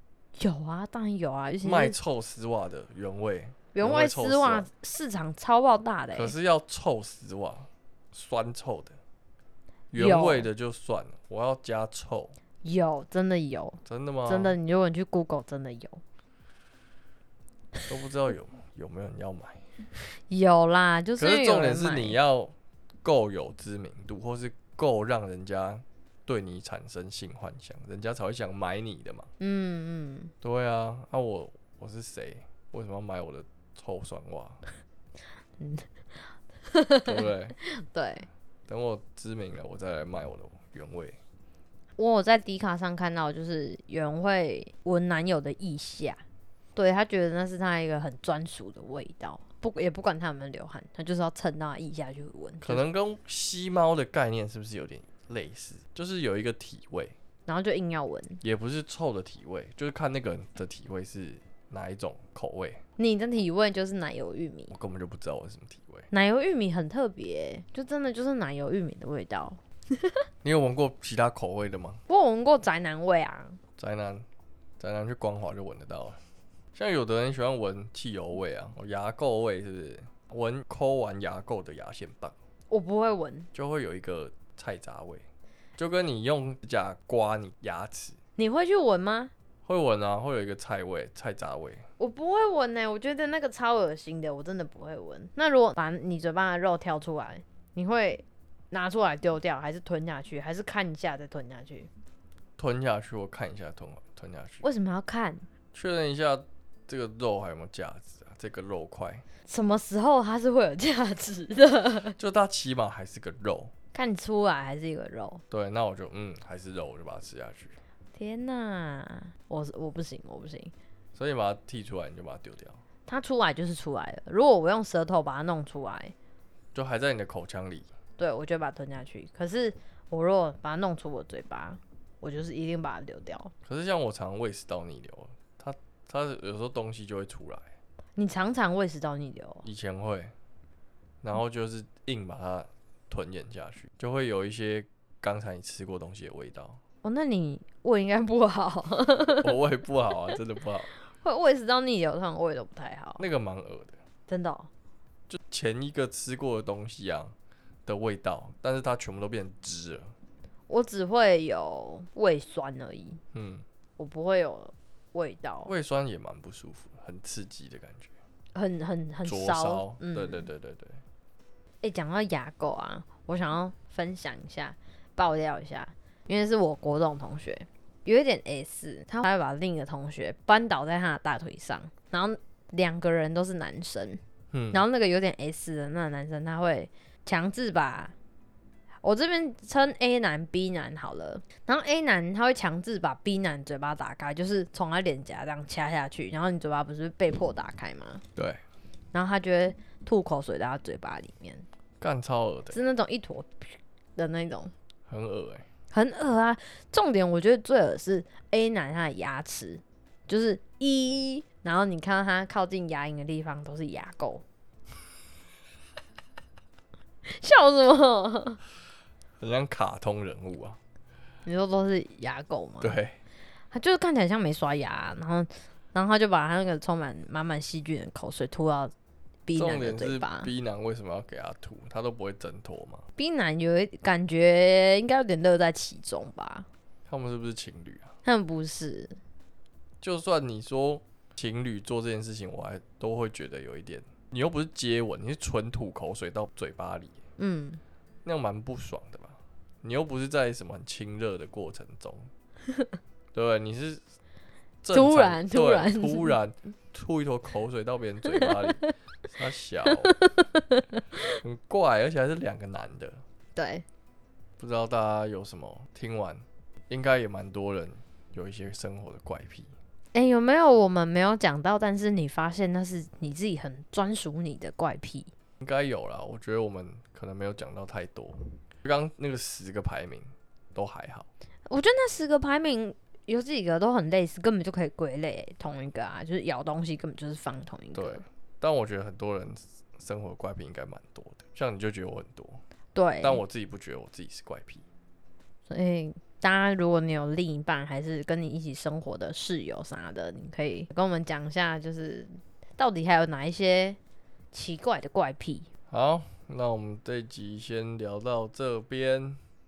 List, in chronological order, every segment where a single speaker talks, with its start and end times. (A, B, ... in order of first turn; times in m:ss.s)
0:00.4-0:02.0 A
0:01.6-0:04.7 B
0:03.7-0:06.3 A
0:06.1-0:09.0 B
0:09.9-0:12.4 B
0:10.0-0:10.5 A
0:12.6-0:16.0 A
0:13.8-0:14.6 B
0:17.9-0:19.7 B
0:20.3-0:22.2 A
0:21.2-0:29.3 B
0:29.4-0:30.3 A
0:30.4-0:34.6 B
0:35.6-0:38.3 A
0:37.1-0:37.6 B
0:38.7-0:41.2 B
0:42.0-0:46.2 A
0:46.8-0:52.8 A
0:52.6-0:57.2 B
0:57.5-0:58.4 A
0:58.4-1:02.8 B
1:03.0-1:04.7 A
1:04.7-1:06.1 B
1:06.1-1:10.2 A
1:10.4-1:12.0 B
1:12.1-1:13.6 A
1:13.8-1:14.2 B
1:14.8-1:16.2 B
1:16.7-1:22.4 B
1:22.7-1:23.5 A
1:23.5-1:25.3 B
1:25.8-1:28.2 B
1:28.4-1:29.3 A
1:29.6-1:31.9 B
1:32.0-1:41.9 A
1:42.6-1:44.7 B
1:44.6-1:45.5 A
1:45.7-1:49.2 B
1:49.5-1:52.2 A
1:52.2-1:53.7 B
1:53.9-1:55.4 A
1:55.5-1:57.8 B
1:58.2-2:00.7 A
2:01.2-2:02.8 B
2:03.1-2:06.2 A
2:06.7-2:07.9 B
2:08.2-2:13.5 A
2:13.6-2:17.7 B
2:18.2-2:19.6 A
2:19.6-2:20.3 B
2:21.2-2:26.8 B
2:27.0-2:29.6 A
2:29.4-2:30.9 B
2:31.1-2:33.2 A
2:33.2-2:34.0 B
2:34.3-2:34.7 A
2:35.3-2:37.3 B
2:37.9-2:40.1 B
2:40.7-2:43.2 A
2:43.3-2:43.6 B
2:44.0-2:45.7 A
2:45.7-2:48.1 B
2:48.5-2:50.5 A
2:49.2-2:51.0 B
2:51.8-3:04.2 A
3:04.5-3:04.8 B
3:04.7-3:08.2 A
3:09.0-3:18.2 A
3:19.1-3:21.7 A
3:22.0-3:22.8 B
3:22.7-3:24.7 A
3:25.1-3:25.6 B
3:25.9-3:34.4 A
3:37.2-3:38.6 A
3:39.4-3:40.8 B
3:41.5-3:43.0 A
3:42.8-3:43.2 B
3:43.7-3:48.9 A
3:49.5-3:50.5 A
3:49.5-3:53.1 B
3:53.2-3:56.7 A
3:57.1-3:58.1 B
3:58.2-3:59.2 A
4:00.0-4:07.2 B
4:07.4-4:07.8 A
4:08.2-4:12.3 B
4:13.3-4:14.0 B
4:14.8-4:20.2 B
4:14.9-4:16.4 A
4:18.3-4:18.8 A
4:19.9-4:21.3 A
4:21.3-4:23.2 B
4:23.6-4:23.8 A
4:24.6-4:29.7 B
4:30.1-4:35.3 A
4:35.6-4:41.3 B
4:41.7-4:48.2 A
4:48.0-4:52.6 B
4:52.9-4:53.4 A
4:53.2-4:54.8 B
4:55.7-5:04.0 A
5:04.5-5:05.7 A
5:05.9-5:09.4 B